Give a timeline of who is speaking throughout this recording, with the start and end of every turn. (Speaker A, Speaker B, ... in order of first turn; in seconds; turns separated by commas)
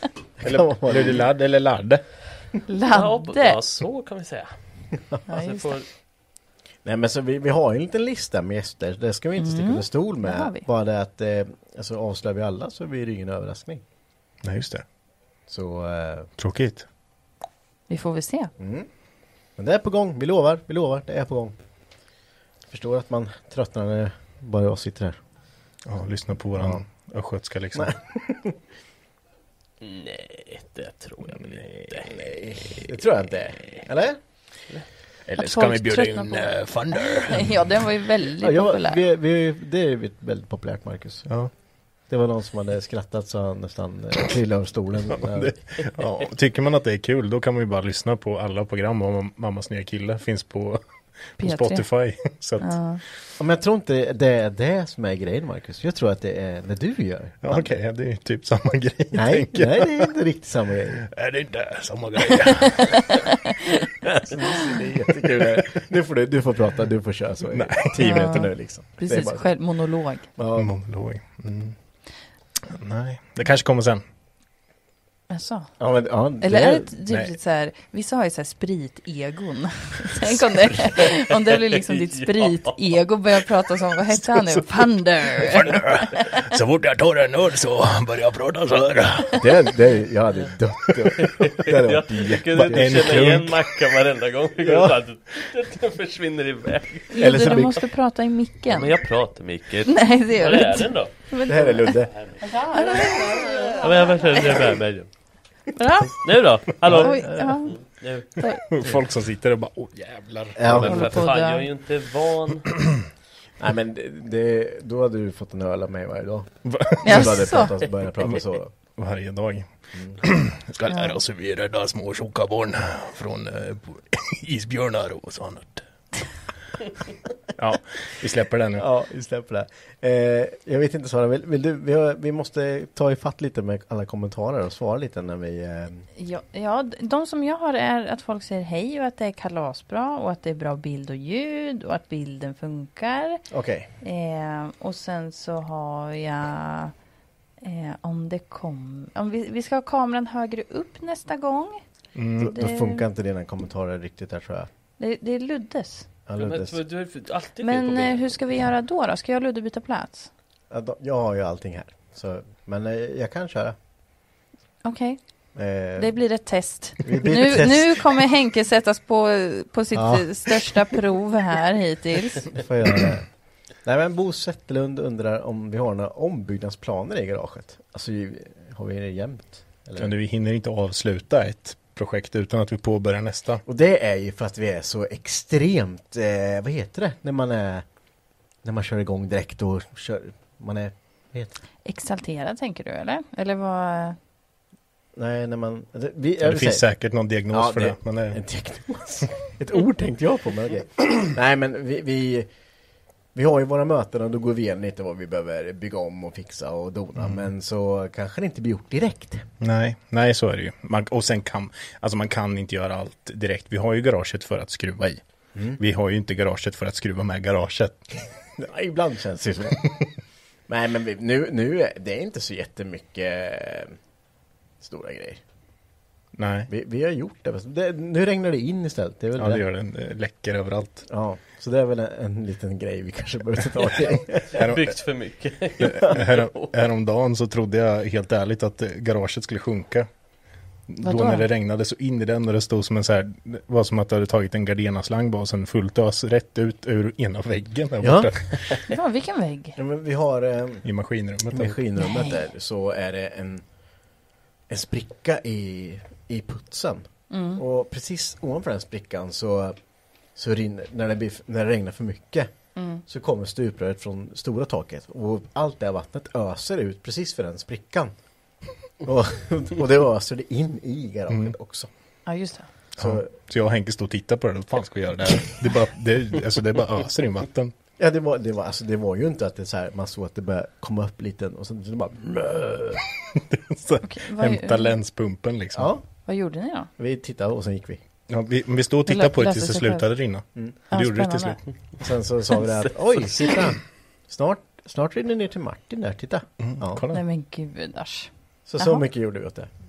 Speaker A: 0.4-1.2, Speaker B: 0.4-2.0, Speaker C: 2.7-3.6, Speaker D: 2.9-5.8, Speaker C: 5.3-5.8, Speaker A: 6.8-13.8, Speaker C: 9.4-10.7, Speaker B: 14.4-14.8, Speaker A: 15.5-16.3, Speaker B: 16.4-16.9, Speaker C: 17.9-18.5, Speaker A: 18.6-18.9, Speaker A: 19.5-21.6, Speaker A: 22.7-25.2, Speaker B: 25.8-27.9, Speaker A: 26.6-26.9, Speaker A: 27.7-28.6, Speaker D: 29.8-32.8, Speaker B: 31.6-32.1, Speaker A: 32.7-34.2, Speaker B: 35.3-37.8, Speaker C: 35.4-39.0, Speaker A: 38.4-45.5, Speaker B: 41.3-41.5, Speaker B: 45.3-53.0, Speaker C: 51.4-53.0, Speaker A: 53.4-57.6, Speaker B: 57.4-60.1, Speaker A: 59.1-61.1, Speaker B: 61.1-63.1, Speaker A: 64.2-69.6, Speaker B: 67.5-68.4, Speaker C: 68.0-70.3, Speaker A: 70.3-70.7, Speaker B: 70.5-71.8, Speaker B: 72.7-74.0, Speaker C: 75.3-75.7, Speaker A: 75.8-76.9, Speaker C: 76.4-86.4, Speaker B: 77.1-77.3, Speaker D: 81.7-82.8, Speaker B: 84.2-84.6, Speaker B: 85.3-89.7, Speaker A: 89.4-93.3, Speaker D: 91.3-97.6, Speaker B: 92.6-93.6, Speaker A: 94.6-94.9, Speaker C: 97.1-98.9, Speaker A: 97.2-97.8, Speaker D: 98.7-101.1, Speaker C: 99.9-102.0, Speaker A: 101.5-103.7, Speaker D: 102.1-102.6, Speaker C: 102.7-103.5, Speaker D: 103.8-105.1, Speaker C: 105.8-106.3, Speaker D: 106.2-108.3, Speaker A: 106.8-107.6, Speaker C: 107.0-108.6, Speaker B: 108.7-111.1, Speaker A: 110.5-111.3, Speaker D: 110.7-112.7, Speaker C: 110.8-111.7, Speaker A: 113.6-118.7, Speaker B: 116.6-117.2, Speaker C: 117.0-117.8, Speaker B: 118.2-126.4, Speaker A: 119.9-120.2, Speaker C: 120.9-121.2, Speaker B: 127.5-128.8, Speaker A: 128.8-136.0, Speaker C: 136.2-143.4, Speaker A: 143.5-143.9, Speaker C: 144.0-146.9, Speaker C: 147.6-153.1, Speaker B: 152.1-152.5, Speaker A: 152.4-154.7, Speaker C: 155.0-156.1, Speaker A: 156.2-156.8, Speaker D: 156.4-158.3, Speaker C: 157.6-160.3, Speaker A: 160.7-163.8, Speaker C: 164.8-172.6, Speaker A: 165.5-166.2, Speaker A: 167.0-168.1, Speaker A: 169.9-170.7, Speaker A: 172.6-180.1, Speaker B: 180.0-183.6, Speaker A: 183.7-187.8, Speaker A: 188.6-191.6, Speaker C: 191.8-194.2, Speaker A: 195.1-196.9, Speaker B: 196.4-198.4, Speaker A: 197.5-202.5, Speaker A: 203.3-209.5, Speaker B: 209.6-218.0, Speaker A: 215.5-215.8, Speaker A: 218.6-220.1, Speaker A: 220.7-224.0, Speaker A: 224.8-225.4, Speaker B: 226.3-226.7, Speaker A: 226.7-229.6, Speaker B: 229.4-231.1, Speaker A: 231.1-234.6, Speaker D: 234.5-236.7, Speaker B: 234.6-234.9, Speaker B: 235.8-240.1, Speaker B: 240.9-248.8, Speaker C: 241.0-241.5, Speaker A: 248.0-248.3, Speaker C: 248.9-249.8, Speaker A: 249.8-250.9, Speaker B: 250.8-251.7, Speaker A: 251.5-253.7, Speaker C: 252.0-252.5, Speaker A: 254.7-268.4, Speaker C: 257.3-257.6, Speaker C: 262.7-263.0, Speaker A: 269.0-271.9, Speaker C: 272.2-272.7, Speaker B: 273.0-277.7, Speaker A: 273.0-273.3, Speaker A: 278.0-283.0, Speaker B: 283.7-285.9, Speaker C: 284.0-285.0, Speaker A: 285.7-286.3, Speaker C: 286.2-286.9, Speaker A: 287.0-288.0, Speaker B: 288.3-291.6, Speaker C: 289.1-290.2, Speaker C: 290.9-291.6, Speaker A: 292.0-297.0, Speaker D: 292.8-293.2, Speaker B: 296.6-297.2, Speaker C: 297.1-299.0, Speaker A: 298.7-299.7